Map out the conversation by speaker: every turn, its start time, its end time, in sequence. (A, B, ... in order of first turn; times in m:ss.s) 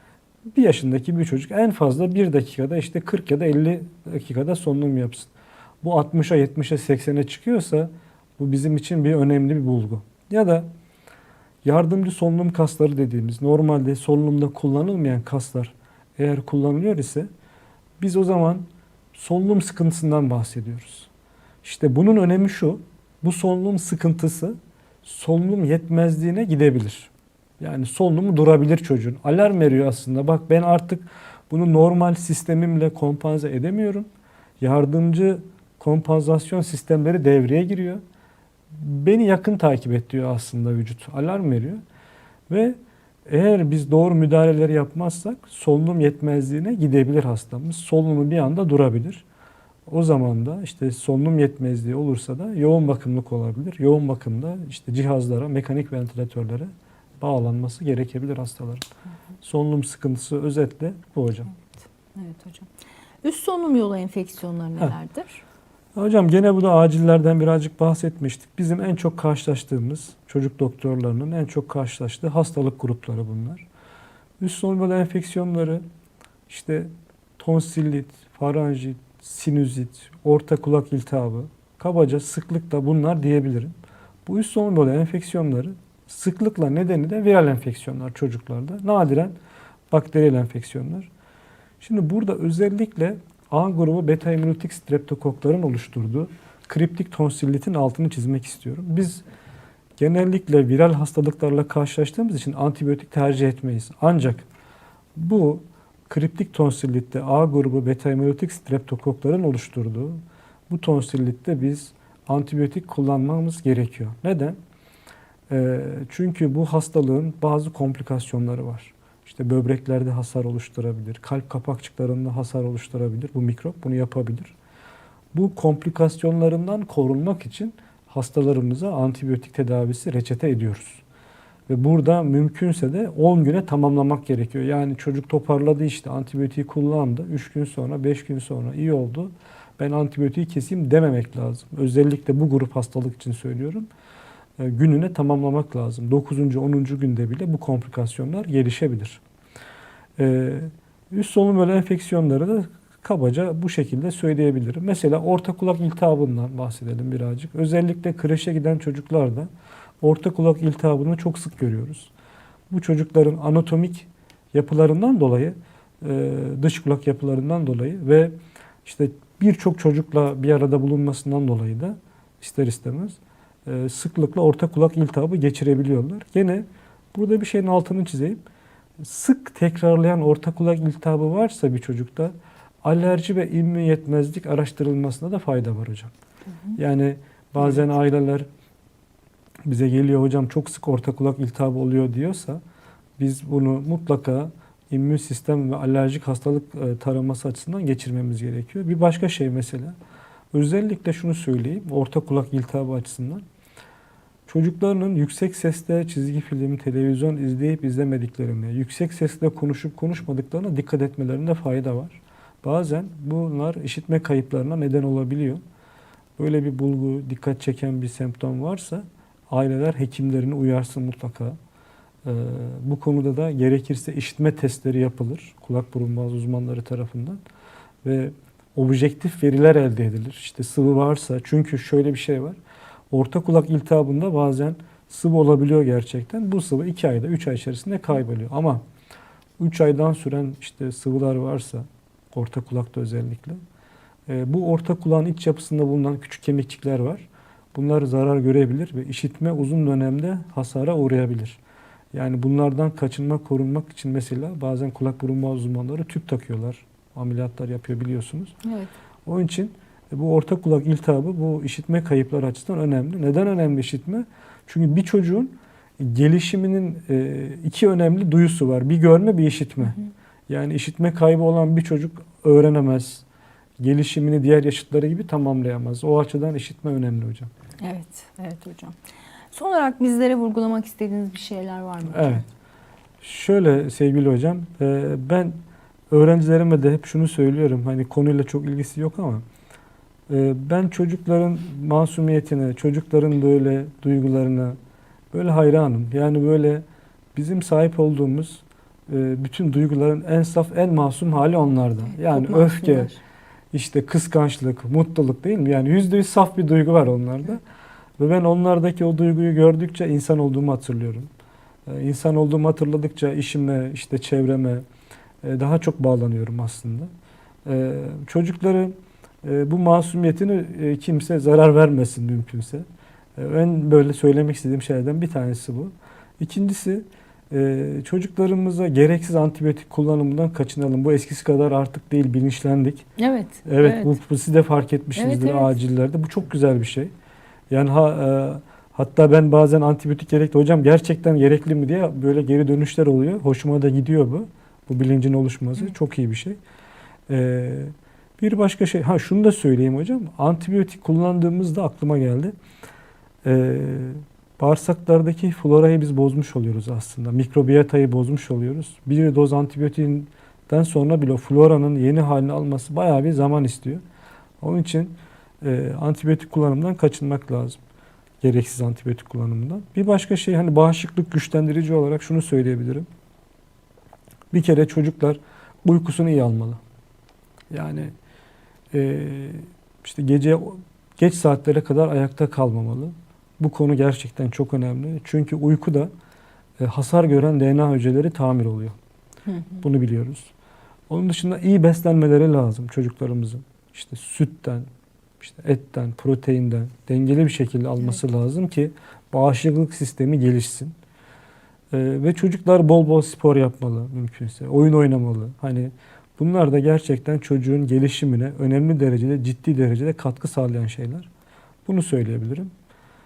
0:00.5-0:10.7 A
0:11.6-0:17.3 A
0:18.0-0:21.1 A
0:21.6-0:34.1 A
0:34.6-0:38.0 A
0:38.7-0:41.8 A
0:42.5-0:49.2 A
0:49.9-0:58.9 A
0:59.4-1:01.6 A
1:01.7-1:02.7 B
1:03.2-1:05.4 B
1:06.0-1:13.7 A
1:14.4-1:15.8 A
1:16.5-1:29.4 A
1:29.9-1:31.1 A
1:31.8-1:39.2 A
1:40.0-1:44.5 A
1:45.2-1:54.6 A
1:55.5-2:04.6 A
2:05.3-2:11.0 A
2:11.7-2:23.9 A
2:24.6-2:29.2 A
2:30.2-2:39.5 A
2:40.0-2:42.1 A
2:42.7-2:58.4 A
2:59.0-3:06.1 A
3:06.8-3:08.5 A
3:07.6-3:07.8 B
3:09.6-3:12.6 A
3:13.2-3:20.0 A
3:20.5-3:23.4 A
3:24.5-3:35.6 A
3:36.4-3:41.6 A
3:42.2-3:47.4 A
3:48.0-3:52.6 A
3:53.1-3:58.8 A
3:59.6-4:03.6 A
4:04.3-4:11.6 A
4:12.1-4:18.6 A
4:18.6-4:18.9 B
4:19.3-4:30.0 A
4:30.5-4:33.2 A
4:33.8-4:37.5 A
4:37.8-4:39.0 B
4:39.5-4:42.5 B
4:42.1-4:42.5 A
4:43.2-4:45.6 A
4:46.1-4:49.4 A
4:50.3-4:54.8 A
4:55.3-4:56.8 A
4:57.4-5:03.1 A
5:02.1-5:03.2 B
5:03.7-5:07.6 A
5:08.2-5:11.3 A
5:11.9-5:14.8 A
5:15.4-5:17.1 A
5:17.7-5:22.8 A
5:23.4-5:33.1 A
5:33.2-5:34.2 B
5:33.6-5:37.1 A
5:35.2-5:35.8 B
5:37.7-5:46.6 A
5:47.3-5:52.6 A
5:53.4-6:04.0 A
6:04.6-6:07.8 A
6:08.4-6:13.1 A
6:14.5-6:16.8 A
6:17.7-6:18.1 A
6:18.9-6:26.1 A
6:26.8-6:29.0 A
6:29.5-6:29.8 B
6:29.8-6:30.5 A
6:31.1-6:34.9 A
6:35.4-6:41.0 A
6:41.9-6:51.3 A
6:51.9-6:52.7 A